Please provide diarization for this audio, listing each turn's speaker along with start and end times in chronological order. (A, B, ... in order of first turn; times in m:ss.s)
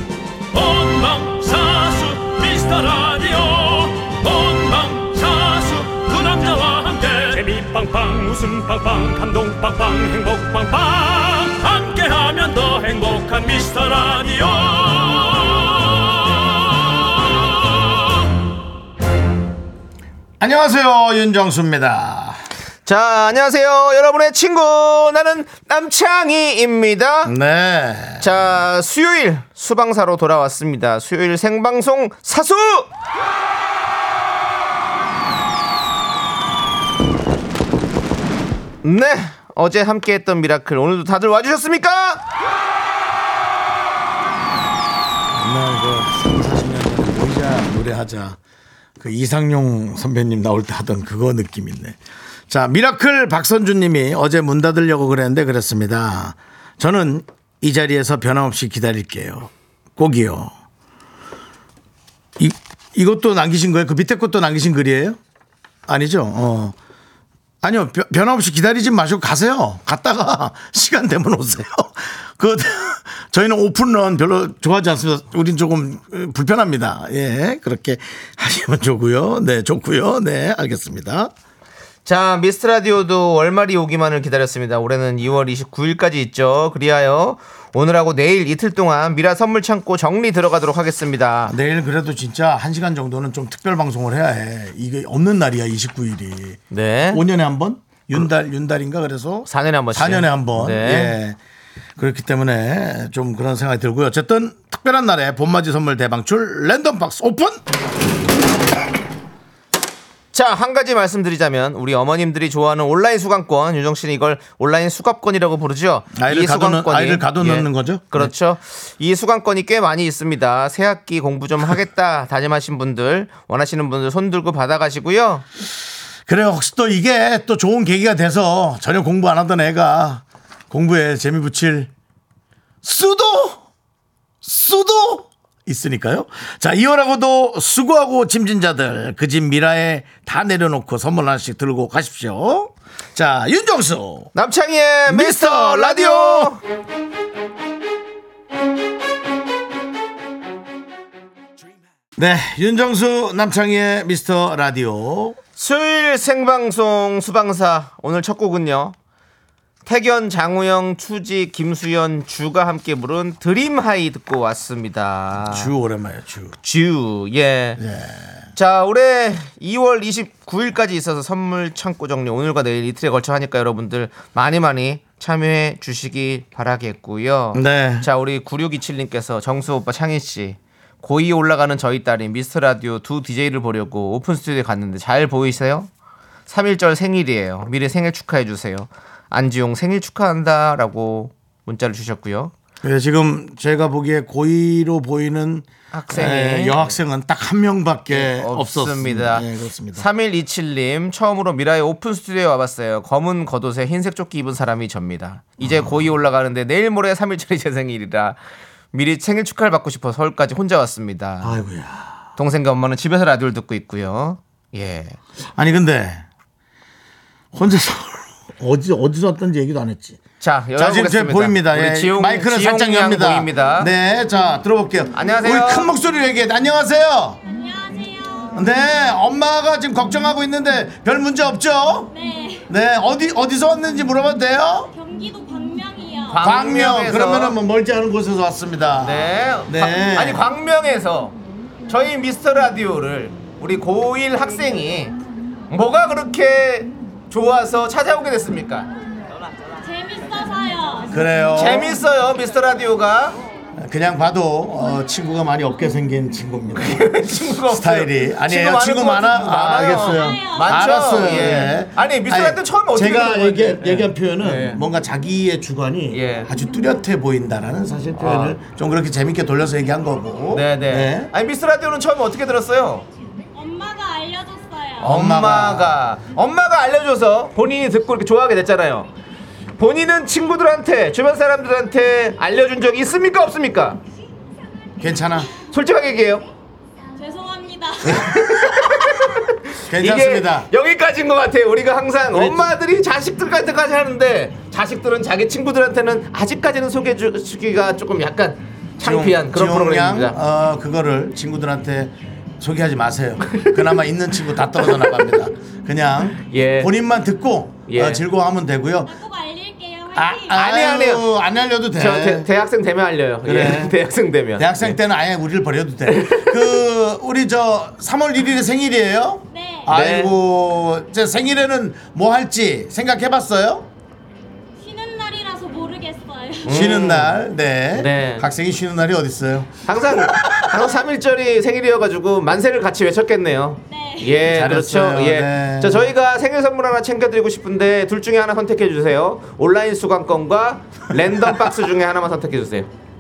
0:00.5-0:17.9 A
0:20.4-0:22.4 B
0:22.9-0:27.3 C
0:27.2-0:28.3 B
0:28.2-0:32.9 C
0:38.8-0:42.2 C
0:45.3-0:48.4 B
0:49.0-1:00.5 B
1:02.4-1:05.2 B
1:05.9-1:06.8 B
1:07.6-1:21.3 B
1:22.1-1:31.6 C
1:31.5-1:41.4 B
1:36.7-1:37.2 C
1:39.5-1:41.2 C
1:42.0-1:47.6 B
1:50.3-2:05.5 C
1:56.1-1:58.3 B
2:06.3-2:11.9 B
2:12.8-2:13.6 B
2:14.4-2:24.3 B
2:24.3-2:26.6 C
2:25.1-2:26.5 B
2:32.2-2:35.4 B
2:35.6-2:39.0 C
2:39.9-2:45.7 C
2:45.5-2:46.6 B
2:46.6-2:47.8 C
2:47.8-2:48.4 B
2:48.6-3:05.9 C
2:57.5-2:58.1 B
3:06.5-3:12.5 C
3:12.8-3:20.1 B
3:15.9-3:17.0 C
3:18.1-3:28.4 C
3:28.9-3:31.6 C
3:31.4-3:32.3 B
3:32.4-3:35.2 C
3:35.5-3:36.2 B
3:37.5-3:40.2 B
3:40.4-3:43.9 C
3:40.8-3:47.4 B
3:45.2-3:45.9 C
3:47.5-3:48.6 D
3:48.5-3:52.1 B
3:52.1-3:52.7 D
3:52.7-3:54.9 B
3:54.9-3:56.5 D
3:56.3-3:57.6 C
3:56.4-4:00.4 B
3:59.0-4:01.4 C
4:01.9-4:05.2 C
4:05.7-4:08.9 C
4:09.8-4:11.2 D
4:11.1-4:12.0 B
4:11.6-4:13.4 C
4:13.8-4:17.1 B
4:16.8-4:24.8 C
4:17.7-4:31.3 B
4:19.8-4:21.0 D
4:26.1-4:26.5 C
4:28.2-4:28.6 C
4:30.5-4:33.1 C
4:33.5-4:35.1 D
4:35.0-4:39.1 C
4:35.0-4:36.0 B
4:39.8-4:44.0 C
4:45.0-4:45.5 B
4:45.7-4:46.4 C
4:47.2-4:48.8 D
4:48.0-5:00.4 C
4:49.9-4:50.7 B
4:52.3-4:52.7 B
4:59.0-5:09.1 B
5:03.5-5:03.9 C
5:04.8-5:05.3 C
5:06.4-5:06.9 C
5:07.9-5:08.2 C
5:09.1-5:10.6 D
5:10.2-5:12.5 B
5:10.5-5:11.3 C
5:12.0-5:15.0 C
5:13.4-5:14.0 B
5:14.6-5:23.9 B
5:16.1-5:16.7 C
5:19.5-5:19.9 D
5:19.9-5:20.3 C
5:24.8-5:26.9 D
5:26.6-5:27.4 C
5:26.7-5:30.8 B
5:28.0-5:28.5 C
5:29.9-5:42.9 C
5:33.9-5:34.4 D
5:34.4-5:36.1 B